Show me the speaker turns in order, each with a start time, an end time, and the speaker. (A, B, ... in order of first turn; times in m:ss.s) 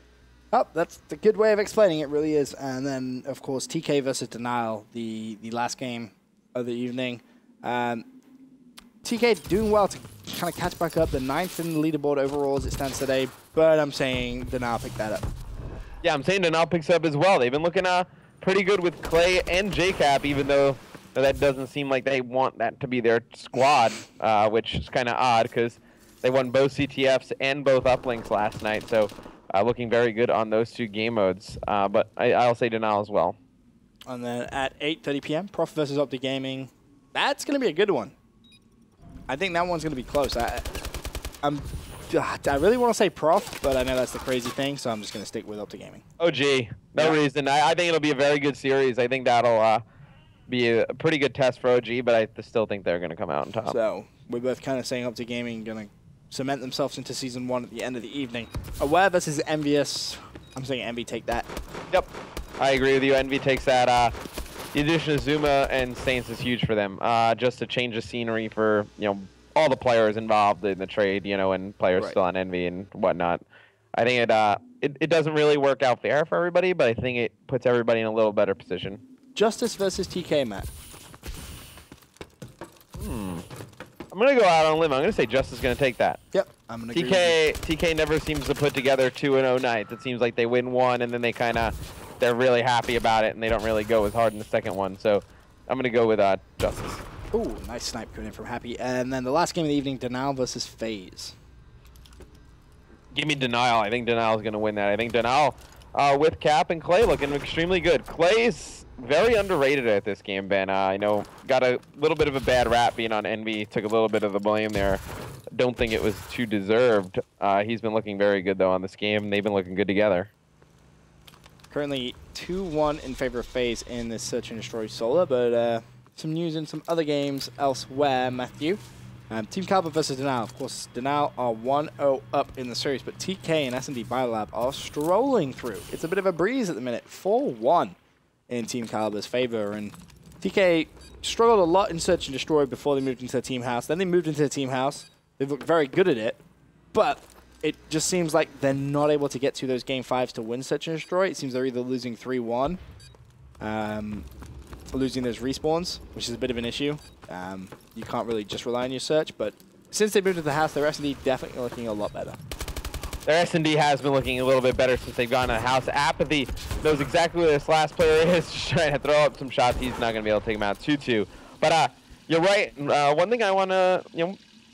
0:00.5-0:08.1 A
0:09.0-0:15.2 A
0:16.0-0:33.4 B
0:34.1-0:38.1 A
0:39.3-0:40.7 A
0:41.4-0:46.0 A
0:46.2-0:49.8 B
0:50.5-0:53.8 B
0:53.7-1:01.5 A
1:01.9-1:04.2 B
1:04.7-1:13.4 B
1:14.0-1:19.0 B
1:19.3-1:20.7 A
1:23.0-1:23.4 B
1:24.1-1:26.2 B
1:26.3-1:27.4 A
1:26.9-1:37.0 B
1:37.3-1:41.4 A
1:43.1-1:55.0 B
1:55.5-2:00.3 B
2:01.7-2:18.0 A
2:18.5-2:26.4 A
2:26.9-2:32.8 A
2:33.6-2:34.3 A
2:34.9-2:42.4 A
2:43.3-2:54.4 B